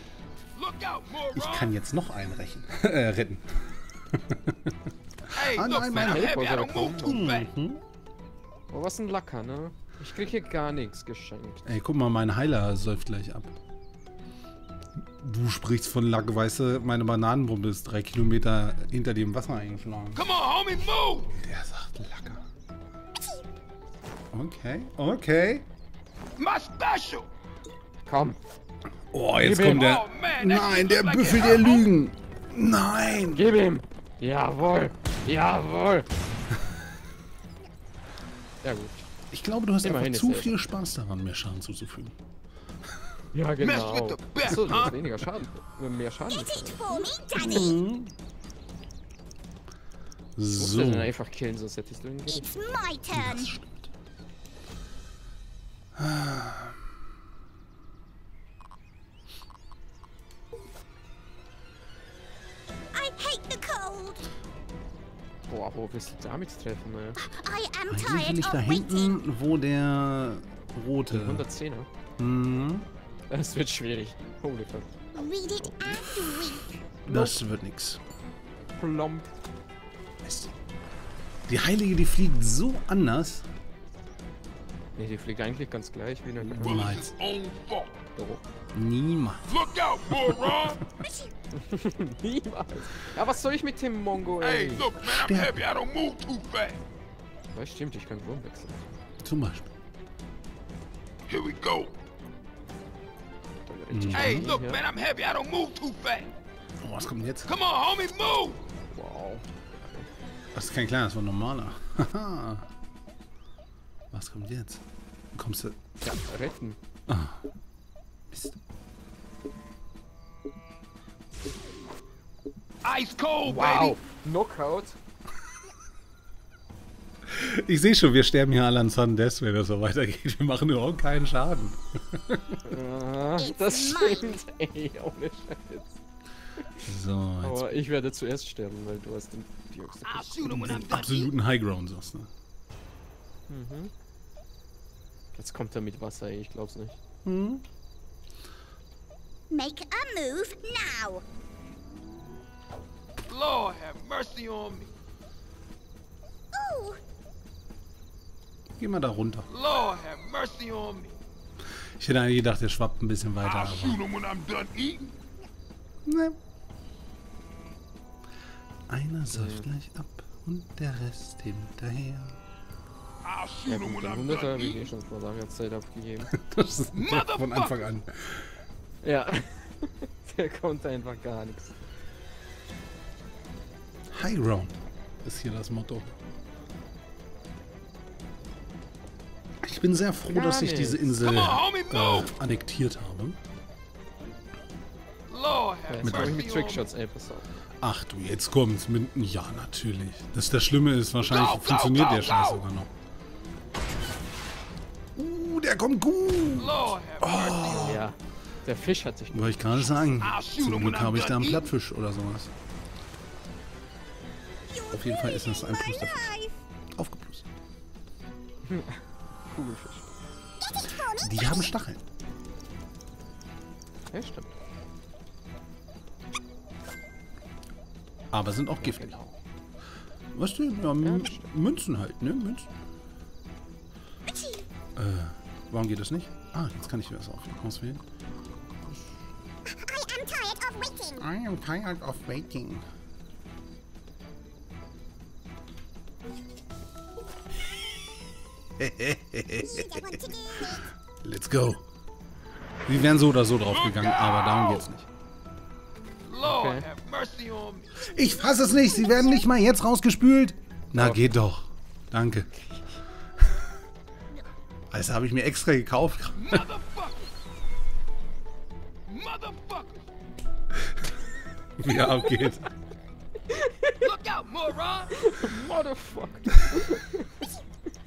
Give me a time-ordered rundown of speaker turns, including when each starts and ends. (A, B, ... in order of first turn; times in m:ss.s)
0:00.6-0:01.7 A
0:01.3-0:04.8 B
0:05.3-0:07.8 B
0:05.3-0:07.5 A
0:05.9-0:07.2 C
0:08.7-0:11.6 C
0:11.6-0:13.5 B
0:15.2-0:20.2 B
0:20.1-0:21.3 A
0:21.3-0:22.4 B
0:24.3-0:25.6 B
0:26.4-0:27.2 A
0:28.0-0:28.4 C
0:29.1-0:33.5 B
0:29.4-0:29.9 C
0:29.6-0:31.9 A
0:33.3-0:36.1 C
0:38.6-0:39.0 C
0:39.3-0:42.2 B
0:39.8-0:40.6 C
0:43.3-0:47.1 C
0:43.6-0:45.0 A
0:46.3-0:47.8 D
0:47.3-0:48.1 B
0:50.4-0:51.1 B
0:50.6-0:52.5 C
0:52.3-0:53.5 D
0:53.1-0:53.9 B
0:55.9-0:56.7 B
1:02.9-1:04.3 D
1:05.5-1:07.2 C
1:07.2-1:09.2 D
1:07.9-1:11.4 B
1:11.1-1:11.9 C
1:12.2-1:12.9 B
1:13.3-1:14.9 C
1:15.1-1:16.7 D
1:15.6-1:16.0 C
1:17.1-1:18.0 B
1:17.1-1:17.3 C
1:18.8-1:19.3 C
1:20.2-1:20.5 B
1:21.5-1:23.5 B
1:25.0-1:27.0 C
1:26.4-1:27.1 B
1:26.6-1:28.0 A
1:28.1-1:28.4 C
1:28.7-1:29.5 B
1:29.4-1:30.8 A
1:31.0-1:31.3 D
1:31.5-1:34.9 C
1:34.4-1:36.8 A
1:35.0-1:35.6 B
1:37.5-1:39.0 C
1:39.2-1:39.7 B
1:41.3-1:41.9 A
1:43.7-1:44.8 C
1:43.9-1:44.5 B
1:44.1-1:46.3 A
1:46.8-1:47.5 B
1:47.4-1:48.6 A
1:48.9-1:50.1 C
1:50.5-1:52.7 B
1:54.1-1:54.8 B
1:55.3-1:55.8 B
1:56.0-1:56.8 C
1:57.1-1:57.4 B
1:58.3-1:58.6 B
2:02.8-2:04.0 A
2:03.5-2:03.9 B
2:03.5-2:05.0 C
2:07.3-2:12.6 B
2:12.6-2:16.0 C
2:13.4-2:14.4 D
2:16.8-2:17.7 B
2:17.4-2:20.8 C
2:20.0-2:21.3 A
2:20.4-2:22.3 B
2:23.5-2:23.9 C
2:25.3-2:27.0 C
2:27.2-2:27.6 B
2:29.5-2:31.2 D
2:33.3-2:34.9 A
2:36.5-2:37.0 D
2:38.8-2:39.5 B
2:39.5-2:41.1 A
2:42.0-2:44.0 B
2:43.4-2:45.2 A
2:46.0-2:46.4 B
2:48.9-2:52.4 B
2:49.3-2:49.7 C
2:53.2-2:54.9 A
2:53.7-2:56.4 C
2:56.3-2:58.5 B
2:56.9-2:57.9 A
2:59.0-3:01.8 C
3:04.1-3:06.1 B
3:09.6-3:13.4 B
3:10.3-3:11.2 C
3:11.2-3:12.3 A
3:15.3-3:16.9 A
3:15.9-3:17.5 C
3:16.0-3:16.4 B
3:17.8-3:22.9 B
3:21.2-3:22.6 A
3:25.2-3:28.1 B
3:26.6-3:28.1 A
3:27.8-3:30.2 C
3:29.3-3:32.5 B
3:30.2-3:31.7 A
3:34.7-3:36.6 D
3:34.9-3:36.3 B
3:36.9-3:37.5 B
3:38.6-3:40.1 C
3:40.6-3:41.7 D
3:41.2-3:42.0 B
3:44.1-3:44.5 C
3:48.3-3:49.1 B
3:48.8-3:49.3 C
3:50.3-3:52.7 B
3:51.0-3:51.5 C
3:54.3-3:54.7 D
3:55.0-3:58.0 B
3:59.7-4:01.3 D
4:01.2-4:02.9 B
4:08.8-4:11.8 B
4:09.6-4:10.9 D
4:12.9-4:15.1 B
4:13.7-4:14.8 A
4:16.2-4:18.1 A
4:16.4-4:16.8 C
4:18.0-4:22.5 B
4:18.2-4:19.4 D
4:21.0-4:21.3 C
4:24.9-4:26.6 B
4:26.4-4:27.3 A
4:29.1-4:30.0 A
4:31.8-4:32.7 B
4:33.5-4:34.1 C
4:34.0-4:35.1 A
4:35.1-4:37.5 C